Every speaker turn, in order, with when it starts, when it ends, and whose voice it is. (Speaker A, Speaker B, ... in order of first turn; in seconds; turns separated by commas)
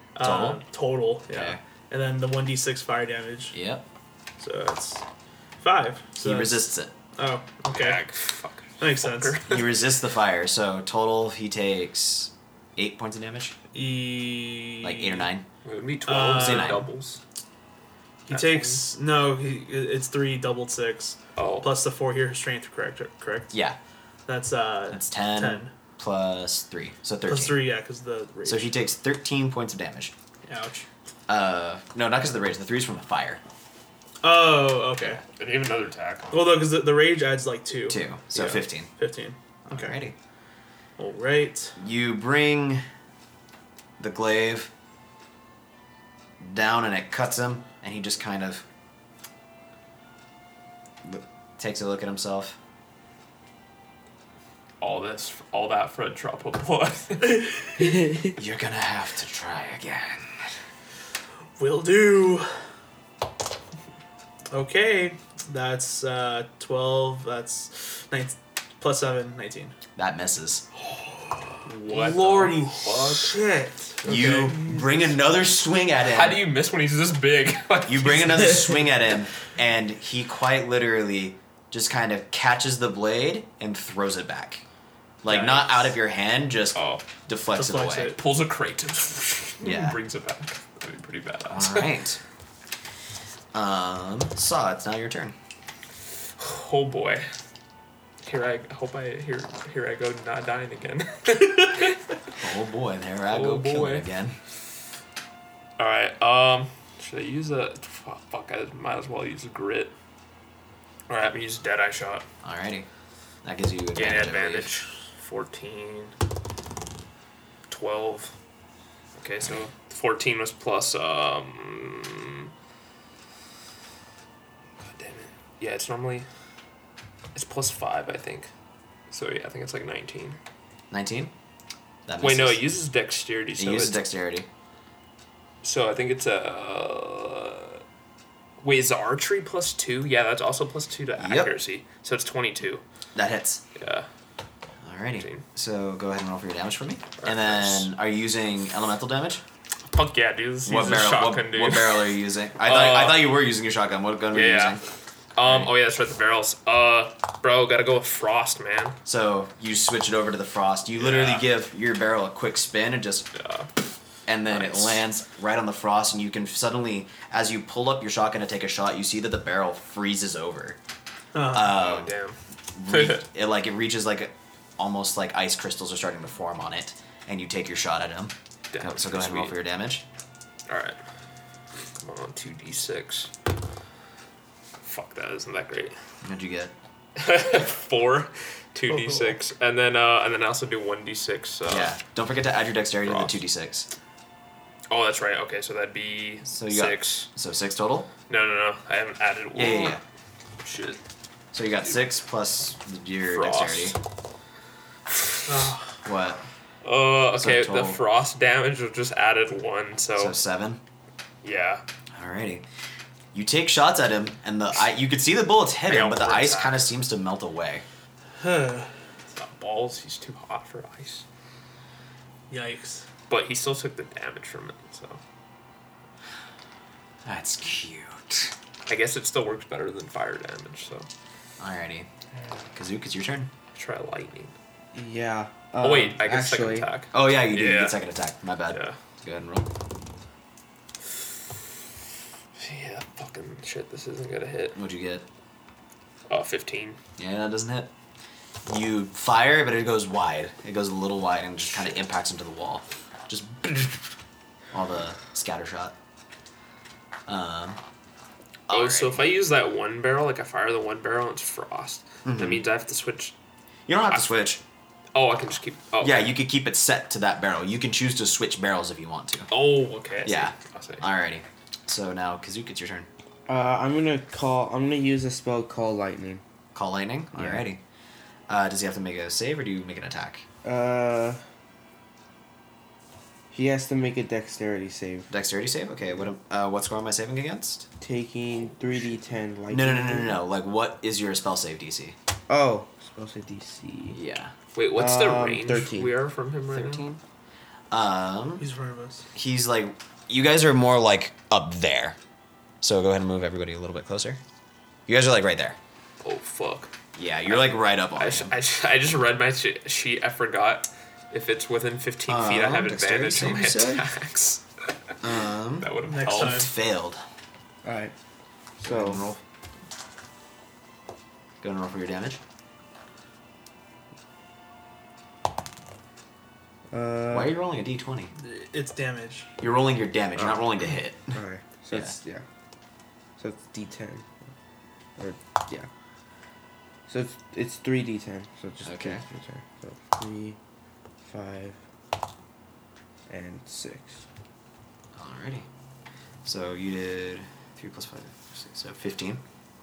Speaker A: 0.1-3.6, Speaker B: 0.2-0.6, Speaker B: 1.3-1.6, Speaker B: 3.5-3.8, Speaker A: 4.4-5.0, Speaker A: 5.6-8.0, Speaker B: 6.2-6.9, Speaker C: 7.7-9.8, Speaker A: 8.8-9.4, Speaker B: 9.5-13.6, Speaker A: 13.7-15.3, Speaker B: 14.8-15.4, Speaker C: 15.6-17.2, Speaker A: 16.1-16.8, Speaker B: 16.3-16.9, Speaker A: 18.3-23.5, Speaker C: 18.3-18.8, Speaker C: 21.4-21.7, Speaker B: 23.5-23.8, Speaker A: 24.3-25.7, Speaker B: 24.9-27.7, Speaker A: 27.3-28.7, Speaker B: 28.4-30.1, Speaker A: 30.4-30.9, Speaker B: 31.3-33.4, Speaker A: 34.2-35.2, Speaker C: 35.4-36.4, Speaker A: 36.3-40.0, Speaker B: 37.9-38.9, Speaker B: 39.6-40.1, Speaker A: 41.0-41.8, Speaker B: 41.8-42.8, Speaker B: 44.0-44.7, Speaker B: 46.4-48.6, Speaker B: 51.0-52.6, Speaker C: 54.8-57.6, Speaker B: 58.3-60.5, Speaker A: 61.6-62.5, Speaker A: 64.5-69.7, Speaker B: 70.0-70.6, Speaker C: 71.7-73.4, Speaker A: 71.8-74.8, Speaker B: 74.0-76.5, Speaker C: 74.1-74.5, Speaker C: 76.0-78.8, Speaker B: 77.8-84.6, Speaker B: 85.2-88.2, Speaker C: 85.3-85.7, Speaker C: 86.7-87.1, Speaker A: 87.5-88.2, Speaker C: 88.2-92.0, Speaker B: 89.6-90.0, Speaker B: 91.5-92.2, Speaker B: 93.5-95.3, Speaker C: 96.4-97.3, Speaker C: 98.2-102.0, Speaker B: 102.4-104.4, Speaker C: 103.3-104.1, Speaker C: 105.8-109.9, Speaker C: 111.1-112.2, Speaker B: 112.4-112.9, Speaker B: 113.4-114.8, Speaker C: 113.9-116.1, Speaker C: 117.7-118.3, Speaker C: 119.2-122.5, Speaker C: 124.8-126.3, Speaker C: 127.3-128.5, Speaker C: 129.1-130.4, Speaker B: 130.9-131.3, Speaker B: 132.1-132.6, Speaker C: 132.2-134.0, Speaker B: 133.6-134.5, Speaker C: 135.6-137.8, Speaker C: 138.6-142.8, Speaker B: 141.2-141.5, Speaker B: 143.1-143.6, Speaker C: 143.8-144.1, Speaker B: 144.8-149.4, Speaker C: 145.2-145.4, Speaker C: 147.2-147.9, Speaker C: 149.9-153.4, Speaker B: 150.7-154.8, Speaker C: 154.3-154.8, Speaker C: 155.3-159.0, Speaker B: 155.4-155.7, Speaker B: 159.1-163.3, Speaker C: 160.9-161.5, Speaker C: 163.3-163.7, Speaker B: 164.2-170.8, Speaker C: 164.5-165.0, Speaker A: 171.3-171.7, Speaker B: 171.5-172.1, Speaker C: 171.6-173.2, Speaker B: 172.7-180.0, Speaker C: 178.7-179.6, Speaker C: 180.7-181.0, Speaker C: 182.0-183.3, Speaker C: 184.8-185.9, Speaker B: 186.2-186.7, Speaker C: 187.2-191.9, Speaker B: 191.7-193.9, Speaker C: 193.0-193.4, Speaker C: 194.9-197.3, Speaker B: 196.5-198.1, Speaker C: 198.3-200.0, Speaker B: 199.5-200.0, Speaker C: 200.6-201.0, Speaker B: 201.5-204.0, Speaker C: 203.2-203.9, Speaker A: 205.5-205.9, Speaker B: 206.0-206.4, Speaker C: 206.8-210.4, Speaker B: 207.3-208.0, Speaker B: 210.2-210.8, Speaker C: 211.4-211.8, Speaker B: 212.1-212.6, Speaker B: 213.3-217.8, Speaker C: 215.8-216.8, Speaker A: 218.4-218.9, Speaker C: 219.3-221.2, Speaker A: 222.5-223.1, Speaker C: 223.3-225.2, Speaker B: 227.2-228.5, Speaker C: 228.9-231.1, Speaker B: 231.6-232.1, Speaker B: 232.7-233.5, Speaker C: 233.7-234.5, Speaker D: 234.9-236.9, Speaker C: 235.8-238.0, Speaker B: 237.1-239.7, Speaker C: 238.7-239.0, Speaker C: 242.6-244.8, Speaker B: 244.7-245.2, Speaker C: 246.3-247.0, Speaker B: 247.2-247.9, Speaker B: 248.7-254.1, Speaker B: 254.7-255.9, Speaker B: 257.3-257.8, Speaker B: 258.7-259.2, Speaker C: 258.7-263.3, Speaker B: 262.2-262.6, Speaker B: 263.9-264.6, Speaker C: 265.1-266.4, Speaker B: 266.0-269.5, Speaker C: 269.5-271.0, Speaker B: 270.2-273.1, Speaker D: 273.5-276.4, Speaker B: 276.7-277.8, Speaker D: 277.3-277.7, Speaker B: 278.5-280.4, Speaker D: 280.6-281.4, Speaker D: 283.5-285.3, Speaker B: 285.3-287.9, Speaker D: 288.0-290.4, Speaker C: 288.5-289.1, Speaker B: 289.7-292.1, Speaker D: 292.5-294.2, Speaker B: 294.1-294.5, Speaker C: 294.7-297.0, Speaker D: 294.9-296.1, Speaker B: 296.7-297.2, Speaker B: 297.9-298.6, Speaker A: 298.6-299.2, Speaker B: 299.3-302.2, Speaker B: 302.8-304.4, Speaker B: 305.1-305.8, Speaker C: 306.2-306.9, Speaker B: 307.1-308.5, Speaker C: 307.5-314.6, Speaker B: 312.3-314.0, Speaker B: 315.2-317.2, Speaker C: 315.8-316.7, Speaker A: 316.0-316.7, Speaker D: 317.8-318.1, Speaker D: 318.8-319.2, Speaker B: 318.8-319.4, Speaker B: 321.6-322.4, Speaker D: 326.9-327.5, Speaker B: 327.3-328.3, Speaker A: 328.4-329.5, Speaker B: 329.6-331.4, Speaker D: 331.3-332.4, Speaker B: 331.9-332.1, Speaker D: 333.4-334.3, Speaker D: 335.2-335.9, Speaker D: 337.1-340.6, Speaker B: 338.8-339.2, Speaker D: 341.2-341.8, Speaker D: 343.3-344.2, Speaker B: 345.1-345.7, Speaker B: 346.4-349.4